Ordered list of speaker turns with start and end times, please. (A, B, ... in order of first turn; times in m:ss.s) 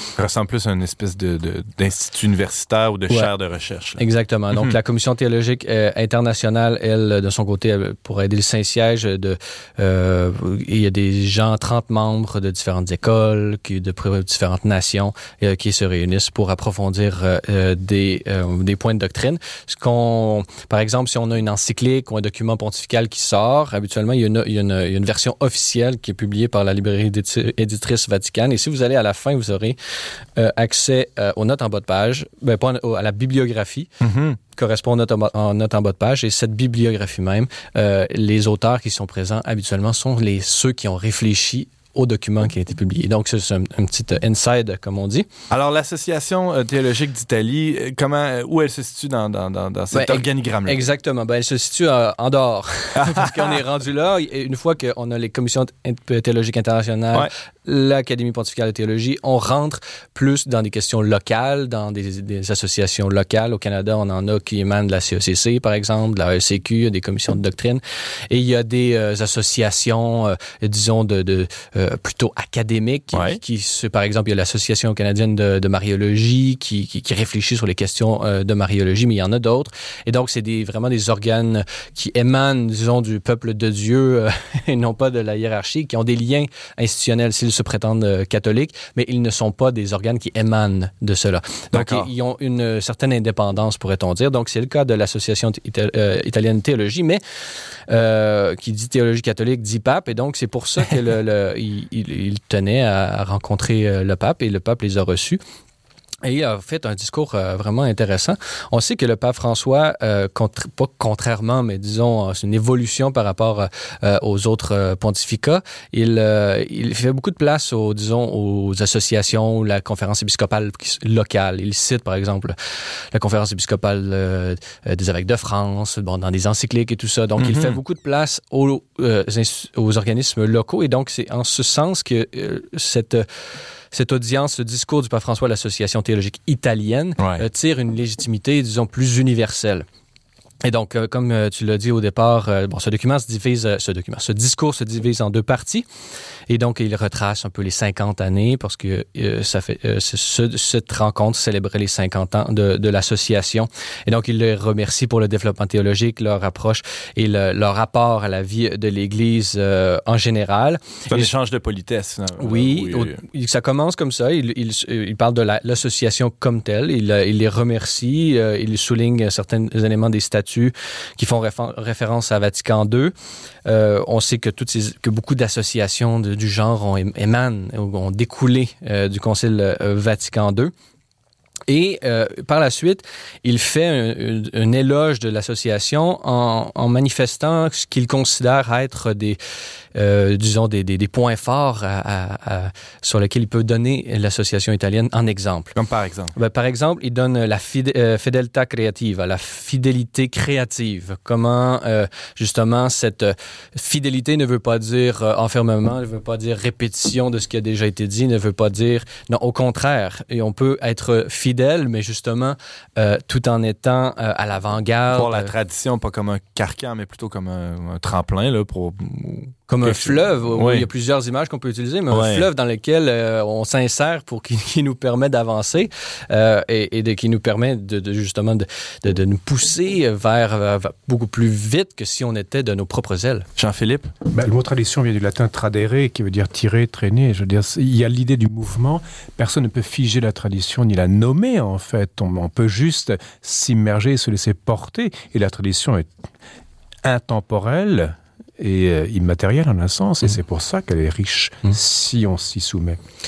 0:00.2-0:04.8 A
0:04.0-0:29.8 B
0:30.4-0:33.9 B
0:34.0-0:34.4 A
0:34.5-0:45.3 B
0:45.5-0:50.8 A
0:49.9-1:37.2 B
0:53.0-0:53.4 A
1:13.1-1:13.4 A
1:31.7-1:32.1 A
1:37.9-1:45.4 B
1:46.2-2:02.5 B
2:03.1-2:13.2 B
2:07.4-2:07.8 A
2:13.9-2:19.8 B
2:17.2-2:17.4 A
2:20.6-2:25.8 B
2:26.5-2:41.3 B
2:41.1-2:43.2 A
2:42.4-2:53.1 B
2:53.6-3:00.7 B
3:01.7-3:09.4 B
3:09.9-3:15.7 B
3:15.7-3:16.3 A
3:16.3-3:35.5 B
3:35.1-3:40.9 A
3:39.7-3:53.5 B
3:42.1-3:42.5 A
3:53.6-3:54.1 A
3:54.3-4:06.1 C
4:07.0-4:13.0 C